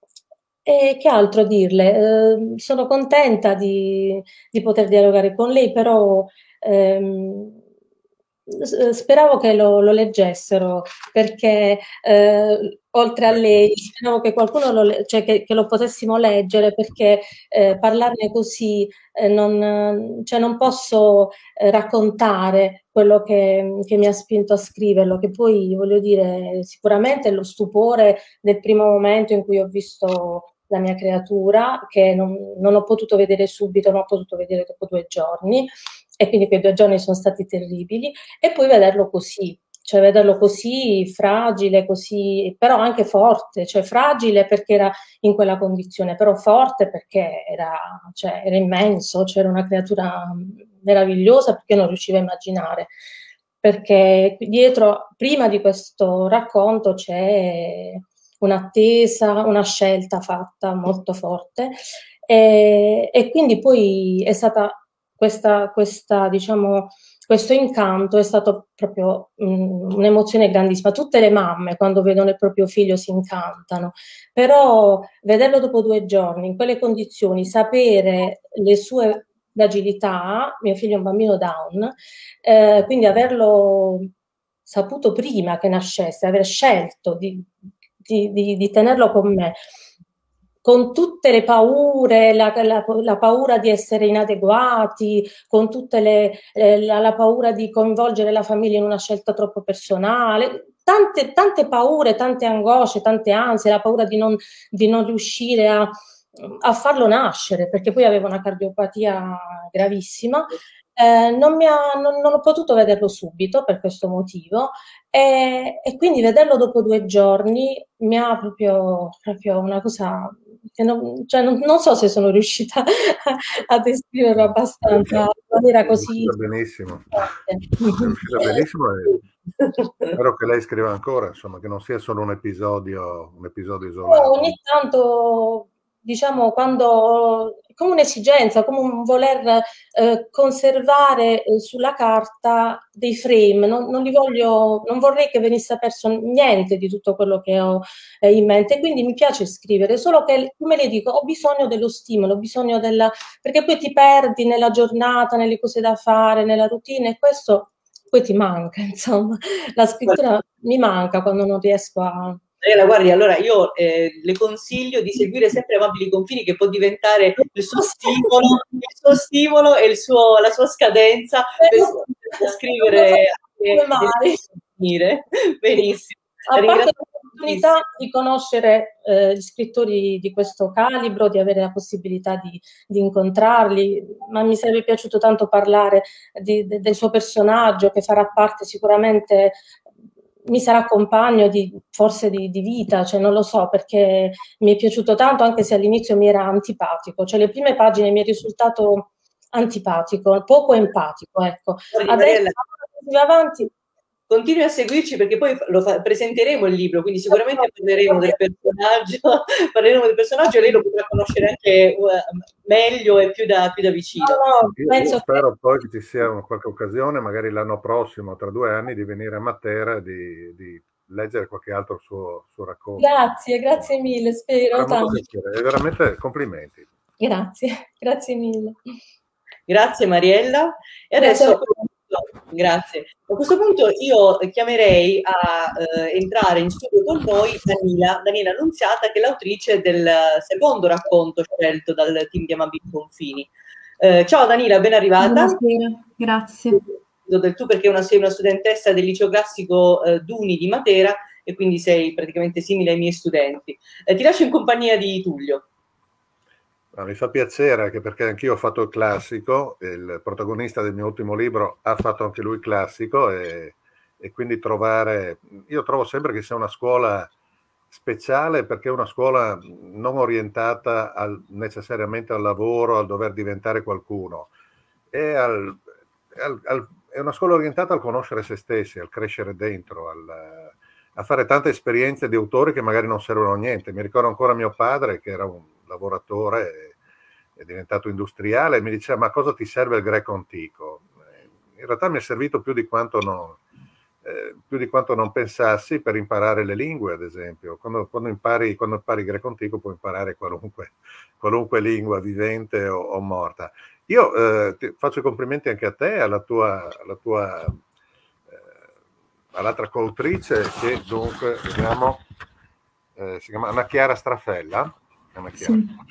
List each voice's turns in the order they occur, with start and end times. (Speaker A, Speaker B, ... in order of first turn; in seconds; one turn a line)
Speaker A: 0.7-7.6
Speaker A: 8.5-52.9
Speaker A: 53.6-61.8
Speaker A: 62.3-84.1
Speaker A: 84.7-87.5
Speaker A: 88.0-89.6
Speaker A: 90.6-126.4
Speaker B: 124.4-125.2
Speaker B: 125.8-129.2
Speaker A: 127.5-128.1
Speaker B: 130.2-134.6
Speaker A: 134.1-162.4
Speaker C: 162.6-177.7
Speaker A: 167.9-168.3
Speaker A: 171.6-174.4
Speaker A: 176.5-189.6
Speaker A: 190.5-203.7
Speaker C: 201.9-202.6
Speaker C: 204.3-214.4
Speaker A: 207.3-208.4
Speaker A: 214.2-215.4
Speaker B: 214.8-223.9
Speaker A: 223.0-225.2
Speaker B: 224.7-226.9
Speaker A: 227.2-228.8
Speaker C: 229.7-245.6
Speaker A: 231.2-231.8
Speaker D: 245.2-246.8
Speaker C: 247.2-255.6
Speaker B: 256.9-267.3
Speaker B: 267.9-274.5
Speaker B: 275.1-275.8
Speaker B: 276.4-286.9
Speaker B: 287.6-293.6
Speaker B: 294.2-307.8
Speaker B: 309.5-312.2
Speaker B: 313.2-315.8
Speaker D: 315.6-316.0